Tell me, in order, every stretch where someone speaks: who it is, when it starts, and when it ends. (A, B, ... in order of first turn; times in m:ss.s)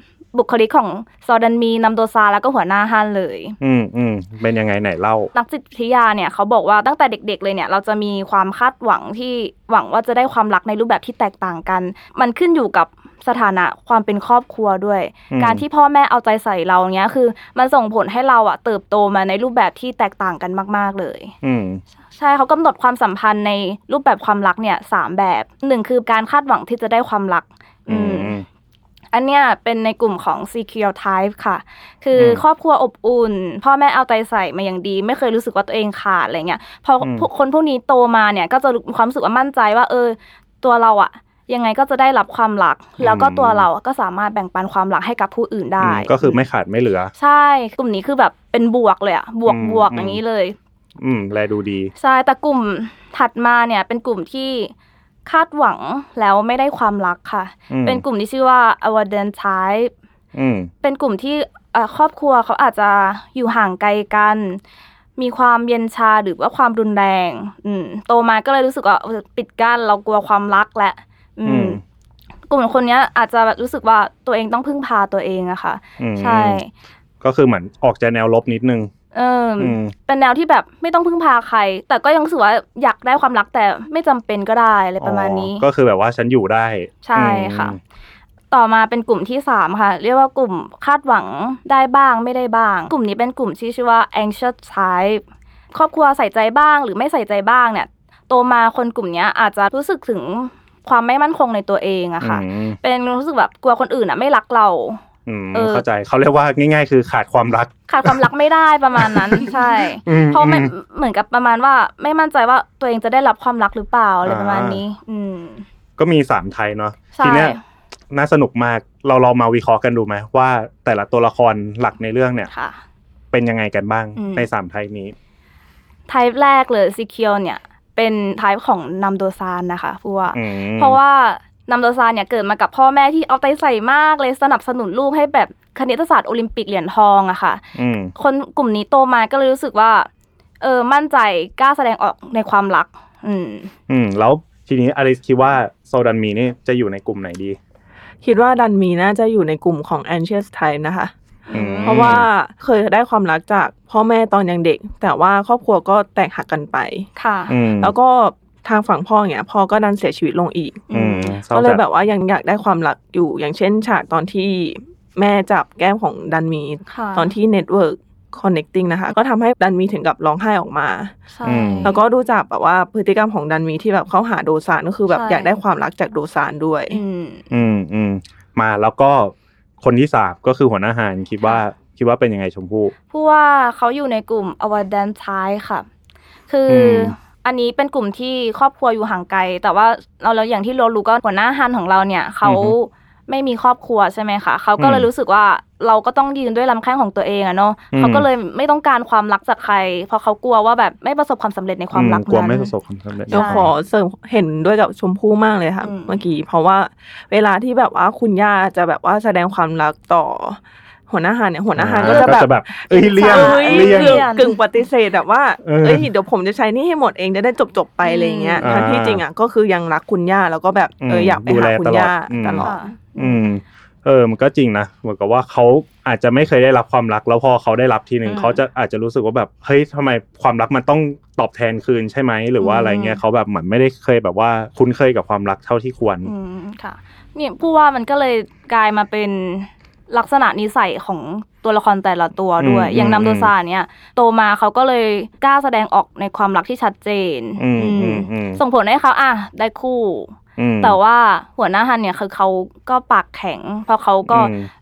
0:00.3-0:03.6 A
0:03.6-0:05.3 B
0:05.3-0:21.3 A
0:15.3-0:15.6 B
0:21.4-0:21.8 B
0:22.1-0:28.3 A
0:27.9-0:28.4 B
0:29.1-0:46.4 A
0:32.1-0:32.4 B
0:37.0-0:37.3 B
0:43.0-0:43.6 B
0:45.8-0:47.1 B
0:47.2-0:50.6 A
0:49.4-0:50.2 B
0:51.0-0:51.9 B
0:52.0-0:54.7 A
0:55.2-0:59.9 A
0:57.7-0:58.0 B
1:00.3-1:00.7 B
1:00.8-1:04.6 A
1:05.2-1:11.8 A
1:11.4-1:11.8 B
1:12.5-1:16.7 A
1:16.0-1:16.6 B
1:17.2-1:18.9 B
1:19.1-1:25.6 A
1:19.6-1:19.9 B
1:25.0-1:27.8 B
1:27.0-1:27.8 A
1:28.5-1:45.0 A
1:42.2-1:42.8 B
1:45.2-1:48.3 B
1:45.5-1:45.8 A
1:47.9-1:55.6 A
1:49.0-1:49.5 B
1:50.0-1:50.7 B
1:54.2-1:54.8 B
1:56.0-1:57.6 B
1:57.1-1:57.6 A
1:58.1-2:02.5 B
2:02.5-2:02.8 A
2:03.3-2:05.1 B
2:04.2-2:04.5 A
2:06.1-2:17.6 A
2:10.3-2:11.0 B
2:17.7-2:18.1 B
2:18.2-2:20.1 A
2:20.6-2:23.7 A
2:23.9-2:27.6 B
2:28.2-2:31.1 C
2:31.5-2:32.2 A
2:31.5-2:32.3 B
2:31.8-2:37.1 C
2:37.2-2:37.6 A
2:37.5-2:37.9 B
2:37.8-2:40.9 C
2:40.9-2:41.4 A
2:40.9-2:41.8 B
2:41.5-2:51.1 C
2:46.9-2:47.3 A
2:51.3-2:52.0 A
2:51.4-2:51.9 B
2:51.8-2:57.0 C
2:55.1-2:55.6 A
2:56.9-2:57.4 A
2:57.5-3:02.9 B
3:03.1-3:05.8 A
3:06.5-3:22.7 A
3:06.7-3:07.2 B
3:12.4-3:12.8 B
3:14.8-3:15.1 B
3:17.9-3:18.3 B
3:21.9-3:23.7 B
3:23.3-3:42.8 C
3:23.3-3:23.7 A
3:25.8-3:26.2 A
3:31.8-3:34.3 B
3:32.0-3:34.6 A
3:35.6-3:36.1 B
3:38.0-3:38.7 A
3:38.6-3:39.2 B
3:41.0-3:56.3 B
3:42.6-3:43.4 A
3:48.2-3:48.6 A
3:52.6-3:53.2 A
3:56.2-4:14.5 A
4:02.6-4:03.5 B
4:07.6-4:08.6 B
4:10.6-4:11.0 B
4:14.3-4:14.7 B